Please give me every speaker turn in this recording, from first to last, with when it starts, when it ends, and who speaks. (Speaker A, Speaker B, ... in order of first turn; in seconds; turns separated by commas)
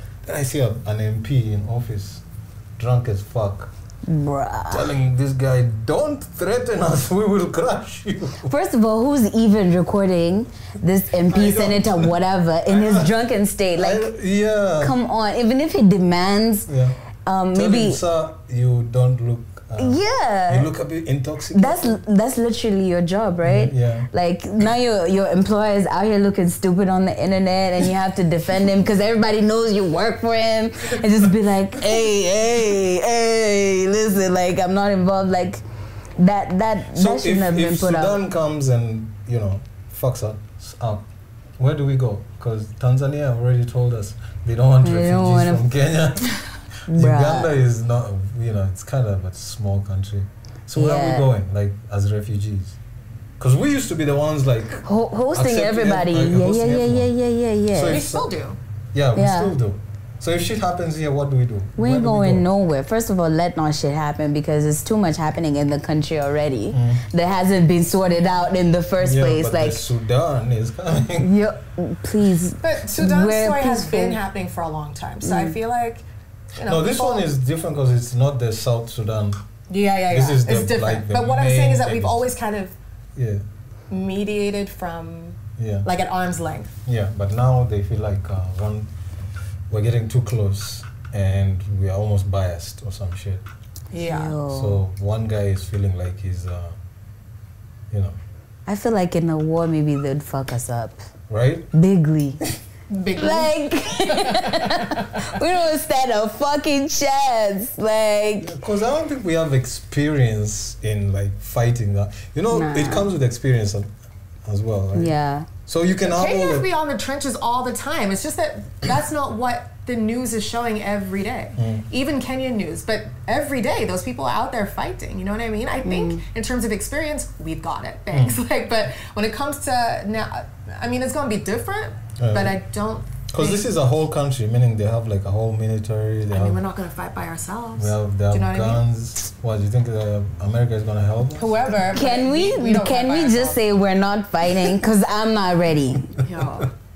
Speaker A: 0.2-2.2, Speaker A: 2.8-3.7, Speaker B: 4.0-4.9, Speaker A: 4.7-8.5, Speaker B: 8.4-14.1, Speaker A: 11.3-12.1, Speaker A: 12.7-13.1, Speaker A: 13.8-14.9, Speaker B: 14.8-16.7, Speaker A: 16.7-17.0, Speaker B: 17.2-18.0, Speaker A: 17.5-22.0, Speaker B: 19.8-20.7, Speaker B: 21.5-35.6, Speaker A: 23.4-24.1, Speaker B: 36.2-38.2, Speaker A: 36.9-41.0, Speaker A: 41.6-52.8, Speaker B: 44.8-45.6, Speaker B: 46.9-47.5, Speaker B: 50.7-51.3, Speaker A: 53.4-57.1, Speaker B: 54.8-58.0, Speaker A: 57.7-58.3, Speaker C: 57.9-58.6, Speaker A: 58.9-62.5, Speaker B: 59.1-59.5, Speaker B: 61.8-69.8, Speaker A: 66.7-67.0, Speaker A: 69.0-71.3, Speaker B: 71.2-74.2, Speaker C: 72.6-76.0, Speaker B: 75.2-75.5, Speaker C: 76.5-77.3, Speaker A: 76.6-79.4, Speaker C: 79.7-82.7, Speaker A: 80.1-82.3, Speaker A: 83.2-83.4, Speaker C: 83.9-86.7, Speaker A: 85.6-85.9, Speaker A: 86.8-88.9, Speaker A: 89.7-93.4, Speaker C: 93.9-94.4, Speaker B: 94.0-94.8, Speaker A: 94.5-96.8, Speaker A: 97.9-98.2, Speaker B: 98.7-101.0, Speaker A: 101.3-101.7, Speaker B: 101.7-102.4, Speaker C: 102.9-104.7, Speaker B: 103.2-108.5, Speaker A: 108.4-113.9, Speaker B: 112.5-113.1, Speaker A: 114.5-115.1, Speaker B: 114.9-115.5, Speaker A: 115.7-116.7, Speaker C: 116.0-133.7, Speaker A: 121.6-121.8, Speaker B: 125.8-126.2, Speaker A: 128.1-128.4, Speaker A: 132.2-132.6, Speaker A: 133.3-136.6, Speaker C: 136.3-138.8, Speaker A: 137.8-141.5, Speaker C: 141.3-143.6, Speaker B: 141.9-146.1, Speaker C: 146.2-146.7